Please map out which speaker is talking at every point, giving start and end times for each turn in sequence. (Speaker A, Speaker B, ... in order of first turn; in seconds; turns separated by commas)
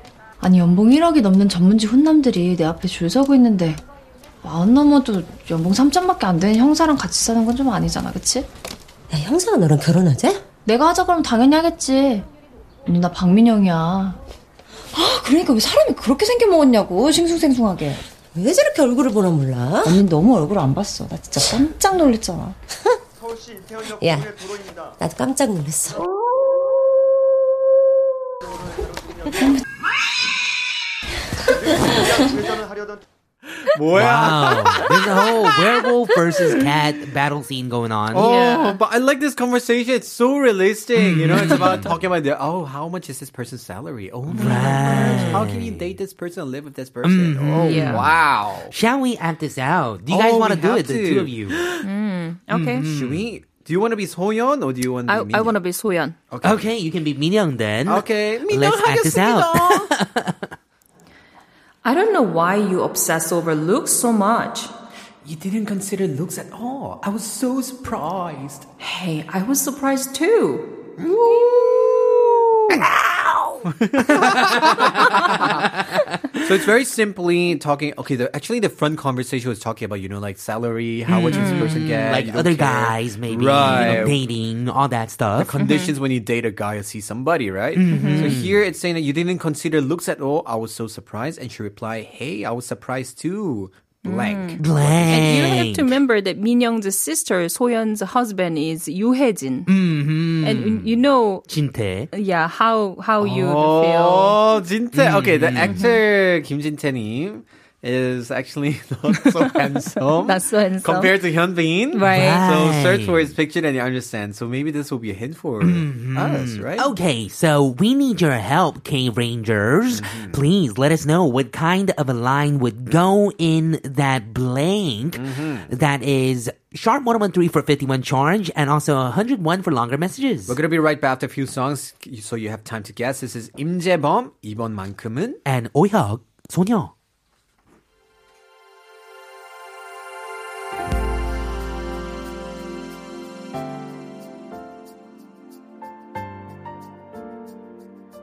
Speaker A: 0.4-3.8, Speaker A: 4.4-8.5, Speaker B: 9.1-10.4, Speaker A: 10.6-12.2, Speaker A: 12.8-14.2, Speaker A: 14.9-18.0, Speaker B: 18.3-20.0, Speaker A: 19.8-22.6, Speaker B: 23.8-26.0, Speaker C: 33.7-35.1, Speaker D: 33.9-38.3, Speaker C: 38.1-48.7, Speaker E: 38.1-38.8, Speaker D: 40.9-41.9, Speaker D: 44.3-45.9, Speaker E: 44.4-45.4, Speaker D: 47.0-48.2, Speaker E: 47.6-48.0, Speaker D: 48.7-51.8, Speaker C: 50.1-51.6, Speaker E: 51.8-52.9, Speaker D: 52.5-53.3, Speaker C: 52.8-55.6, Speaker E: 55.1-56.2, Speaker C: 56.3-56.7, Speaker D: 56.4-60.5, Speaker C: 57.9-59.9, Speaker E: 61.8-64.7, Speaker C: 65.2-68.7, Speaker E: 68.8-70.7, Speaker C: 71.0-75.7, Speaker E: 71.3-71.7, Speaker D: 74.1-76.5, Speaker C: 76.4-84.2, Speaker D: 81.1-85.5, Speaker E: 81.3-81.8, Speaker C: 85.4-95.3, Speaker E: 85.6-85.9, Speaker D: 87.8-88.6, Speaker E: 87.9-88.4, Speaker E: 94.0-99.7, Speaker D: 94.6-96.0, Speaker D: 99.7-102.1, Speaker E: 100.4-101.4, Speaker E: 102.1-104.4, Speaker C: 103.2-116.9, Speaker D: 104.9-105.8, Speaker E: 109.1-111.2, Speaker E: 111.9-112.4, Speaker D: 112.0-113.3, Speaker D: 115.6-130.6, Speaker C: 119.9-120.4, Speaker C: 125.1-125.7, Speaker C: 130.5-135.4, Speaker D: 135.4-136.9